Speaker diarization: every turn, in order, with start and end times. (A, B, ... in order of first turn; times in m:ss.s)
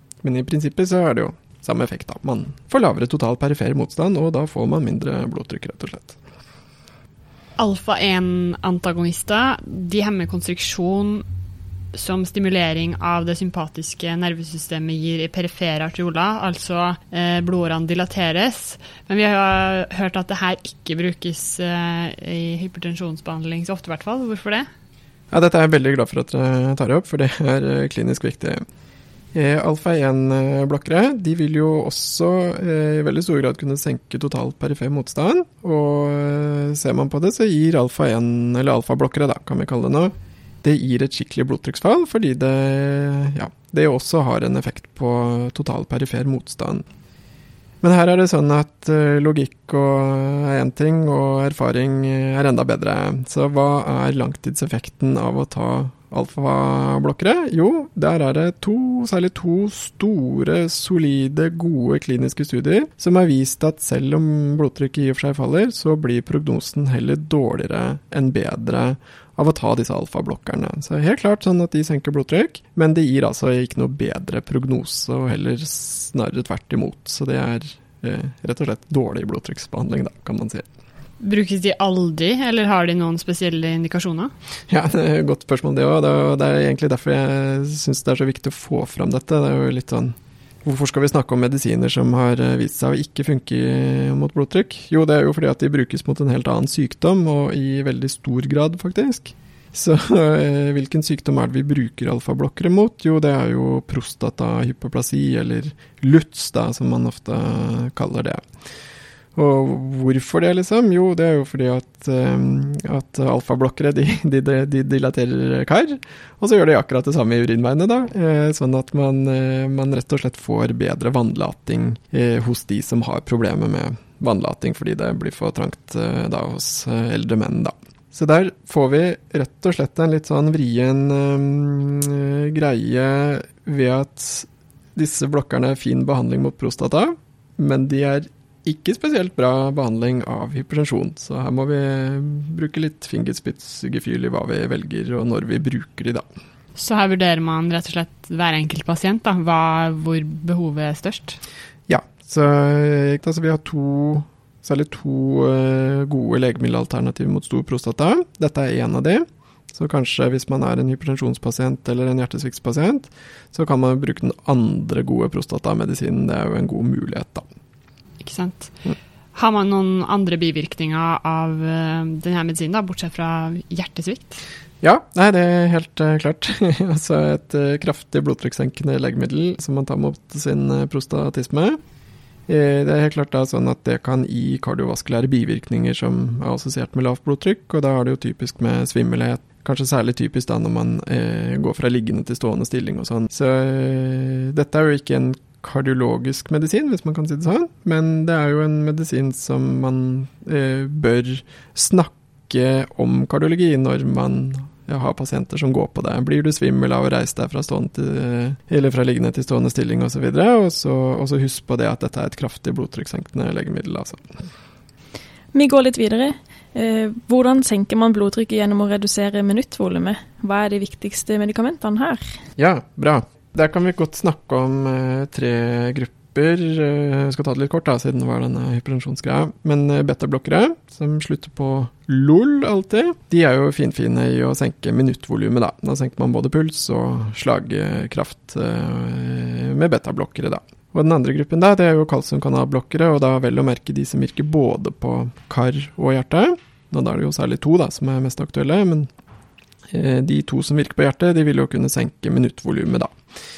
0:00.2-0:06.2 A
0:07.6-0:11.2 B
0:11.9-0:24.7 B
0:25.3-0:28.6 A
0:29.3-0:46.8 A
0:47.8-1:20.7 A
1:21.2-1:24.3 B
1:24.7-1:48.4 A
1:49.4-2:26.2 A
2:26.8-2:31.4 B
2:31.9-2:47.5 A
2:48.2-2:48.7 B
2:49.3-2:54.4 B
2:54.8-3:01.8 A
3:02.5-3:34.2 A
3:35.5-3:42.2 C
3:42.6-4:09.1 A
4:09.9-4:13.1 A